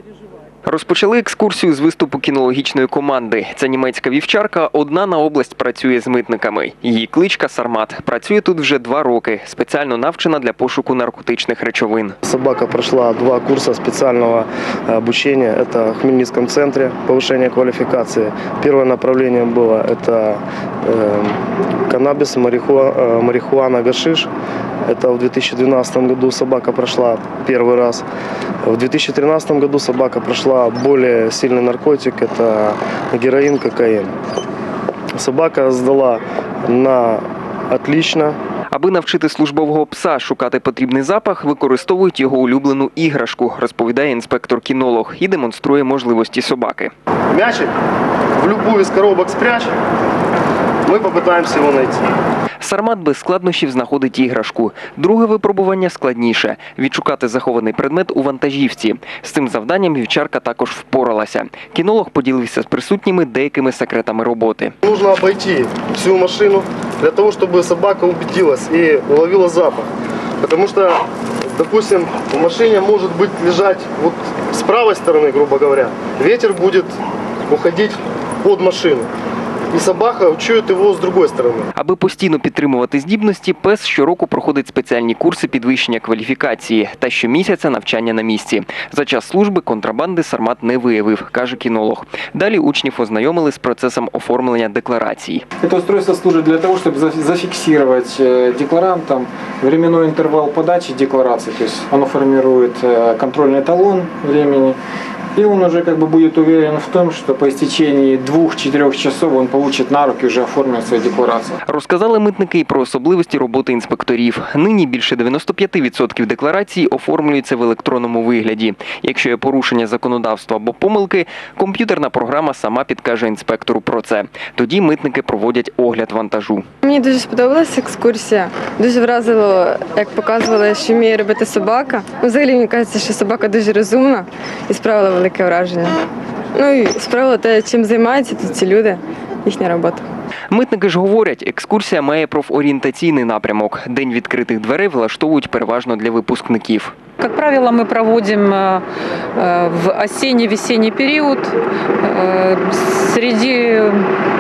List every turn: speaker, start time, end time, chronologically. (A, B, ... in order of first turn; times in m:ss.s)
0:00.6-0:12.2 A
0:12.2-0:24.3 B
0:24.8-0:28.0 B
0:28.6-0:34.1 B
0:35.1-0:38.4 B
0:38.7-0:46.9 A
0:47.3-0:47.7 B
0:48.4-0:49.7 B
0:50.8-0:52.1 B
0:52.6-1:04.7 A
1:04.8-1:09.9 B
1:10.4-1:16.9 B
1:17.5-1:19.1 B
1:19.7-1:21.7 B
1:21.8-1:35.4 A
1:35.6-1:44.8 C
1:45.3-1:51.6 C
1:51.7-2:06.6 A
2:06.8-2:15.9 D
2:16.5-2:20.0 D
2:20.5-2:26.9 A
2:27.2-2:28.8 E
2:29.4-2:31.5 E
2:32.0-2:34.0 E